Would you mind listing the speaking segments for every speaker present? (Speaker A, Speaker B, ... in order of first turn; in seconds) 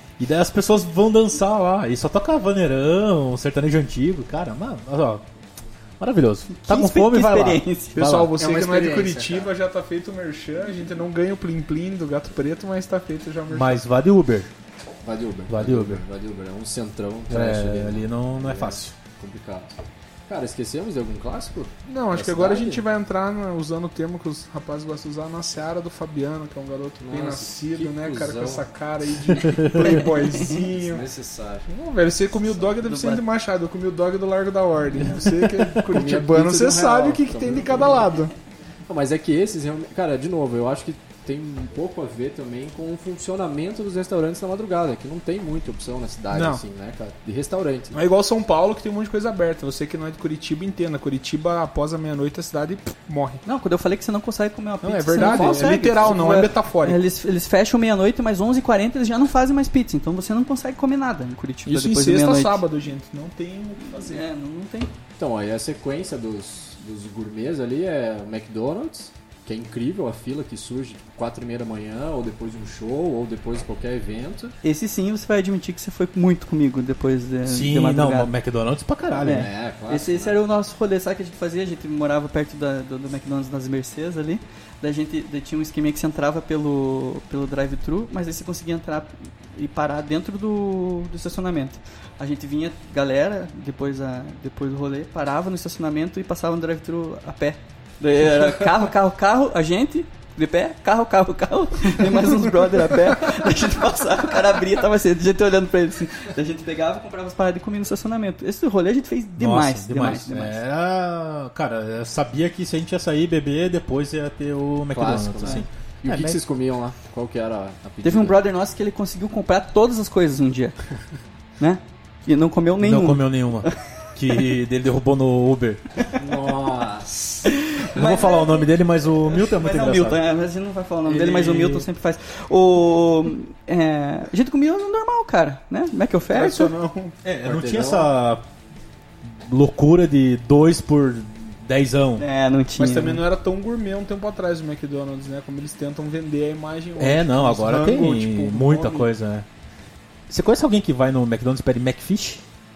Speaker A: 0.2-5.2, 6.0-8.4, 13.5-14.5, 15.5-16.0, 17.3-18.9, 29.4-29.9, 77.5-79.5, 109.4-116.4, 122.8-125.8, 128.0-130.2, 131.1-131.9, 137.2-138.4, 139.2-142.2, 147.0-149.5, 150.3-152.4
Speaker B: 6.5-8.0, 32.8-33.2, 53.5-62.6, 63.8-64.9, 74.6-78.3, 79.2-110.6, 118.0-120.8, 121.6-123.7, 127.5-128.7, 129.3-136.7, 142.2-143.2
Speaker C: 8.0-13.8, 21.9-31.0, 31.7-38.3, 46.3-46.6, 47.9-53.4, 54.8-57.0, 61.7-64.2, 136.3-137.2, 142.8-149.1
Speaker D: 8.4-9.5, 15.0-22.8, 27.0-28.6, 30.3-31.7, 35.9-38.1, 38.9-48.0, 55.1-56.4, 65.2-74.5, 79.2-80.4, 114.9-118.4, 126.2-127.7, 137.4-138.1